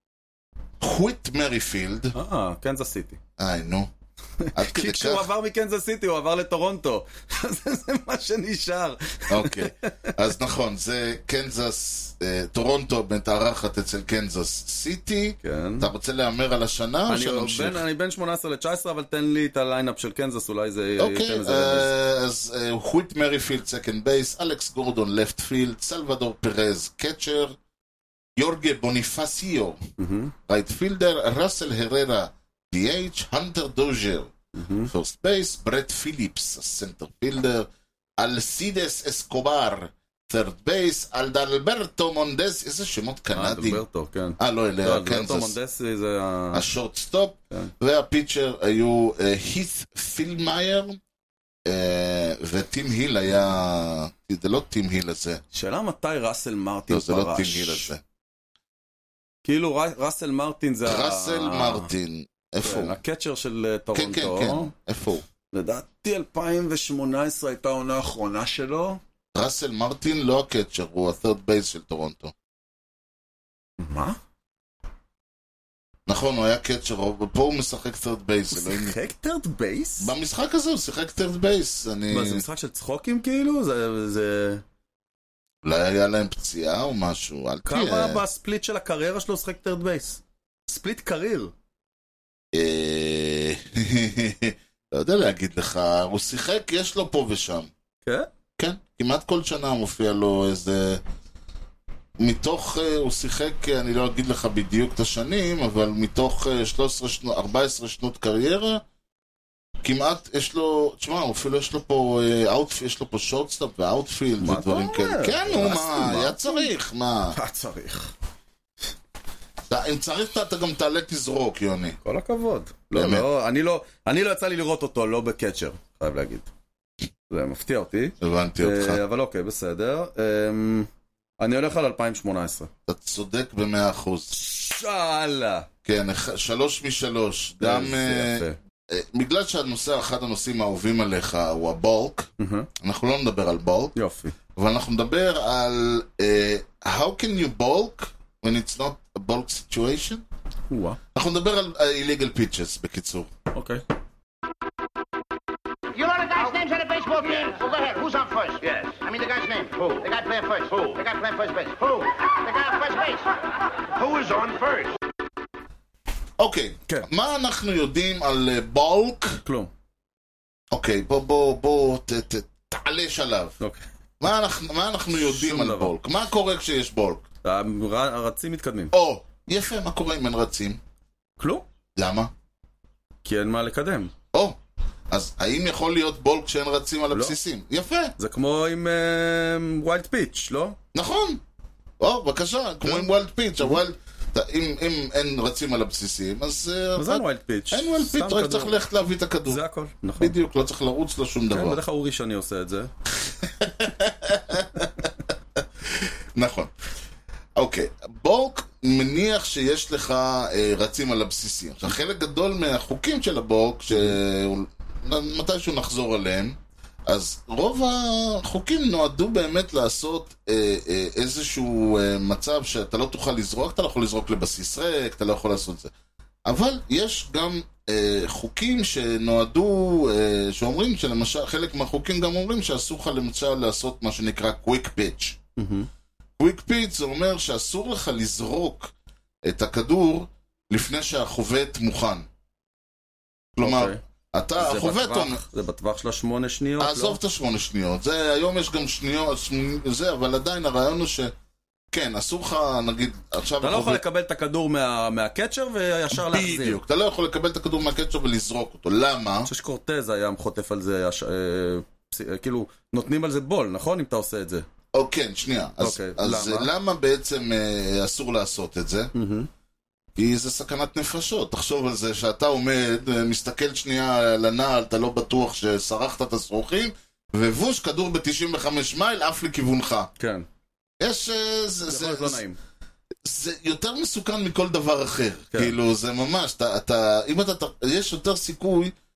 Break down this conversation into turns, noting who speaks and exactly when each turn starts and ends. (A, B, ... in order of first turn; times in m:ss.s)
0:00.8-0:02.1 A
0:02.1-0:03.2 B
0:03.4-0:03.9 A
0:04.4-0:09.9 B
0:04.5-0:05.3 A
0:09.3-0:17.8 A
0:15.4-0:15.9 B
0:17.1-0:21.9 B
0:21.0-0:27.6 A
0:28.4-0:29.8 A
0:30.0-0:30.3 B
0:30.5-0:34.3 A
0:34.5-0:34.9 B
0:34.9-0:43.8 A
0:43.3-0:46.7 B
0:44.4-0:45.6 A
0:46.5-0:51.0 A
0:51.6-0:55.4 A
0:55.5-0:57.9 B
0:56.9-0:58.0 A
0:59.4-1:01.9 B
1:00.8-1:03.0 A
1:02.6-1:04.7 B
1:03.9-1:05.2 A
1:05.5-1:09.0 B
1:09.3-1:12.3 A
1:13.8-1:14.2 B
1:16.1-1:19.0 A
1:18.5-1:20.1 B
1:20.0-1:22.4 A
1:22.1-1:24.6 B
1:25.6-1:28.2 A
1:27.7-1:31.5 B
1:32.5-1:37.7 A
1:38.0-1:38.3 B
1:38.6-1:41.0 A
1:42.2-1:48.8 A
1:49.8-1:57.4 A
1:54.4-1:56.7 B
1:57.3-1:58.1 B
1:59.7-2:02.0 A
2:02.0-2:06.5 B
2:02.9-2:03.2 A
2:07.3-2:12.7 B
2:08.2-2:09.0 A
2:12.9-2:14.3 A
2:14.3-2:15.7 B
2:15.8-2:22.3 A
2:17.6-2:18.6 B
2:22.4-2:22.7 B
2:22.8-2:23.9 A
2:23.9-2:24.3 B
2:24.6-2:30.2 A
2:30.7-2:31.0 B
2:31.1-2:33.3 A
2:33.5-2:33.8 B
2:35.9-2:43.3 C
2:43.9-2:45.0 C
2:46.4-2:49.4 A
2:49.4-2:49.7 B
2:50.7-2:53.6 A
2:53.6-2:53.8 B
2:54.2-2:57.2 A
2:55.1-2:55.9 B
2:57.4-2:58.9 B
2:58.9-3:00.8 A
3:01.4-3:01.6 B
3:02.0-3:02.3 A
3:03.2-3:04.1 B
3:05.1-3:08.1 A
3:07.1-3:07.4 B
3:08.2-3:10.8 B
3:10.9-3:11.4 A
3:12.0-3:19.6 A
3:12.8-3:13.1 B
3:17.0-3:18.8 B
3:19.5-3:20.3 B
3:20.2-3:21.8 A
3:21.5-3:22.9 B
3:23.4-3:25.1 A
3:25.9-3:26.7 A
3:27.6-3:36.6 A
3:37.1-3:45.9 A
3:46.4-3:55.4 A
3:55.6-3:55.9 B
3:56.4-3:58.9 A
3:59.4-4:02.3 A
4:03.6-4:05.4 A
4:03.6-4:04.0 B
4:04.6-4:07.2 B
4:06.8-4:11.3 A
4:11.9-4:14.0 A
4:13.6-4:16.8 B
4:16.1-4:19.5 A
4:19.4-4:24.6 B
4:24.9-4:29.1 A
4:25.8-4:26.7 B
4:29.1-4:29.5 B
4:30.2-4:40.1 A
4:40.2-4:40.4 B
4:41.0-4:42.4 A
4:41.9-4:42.6 B
4:43.2-4:48.9 A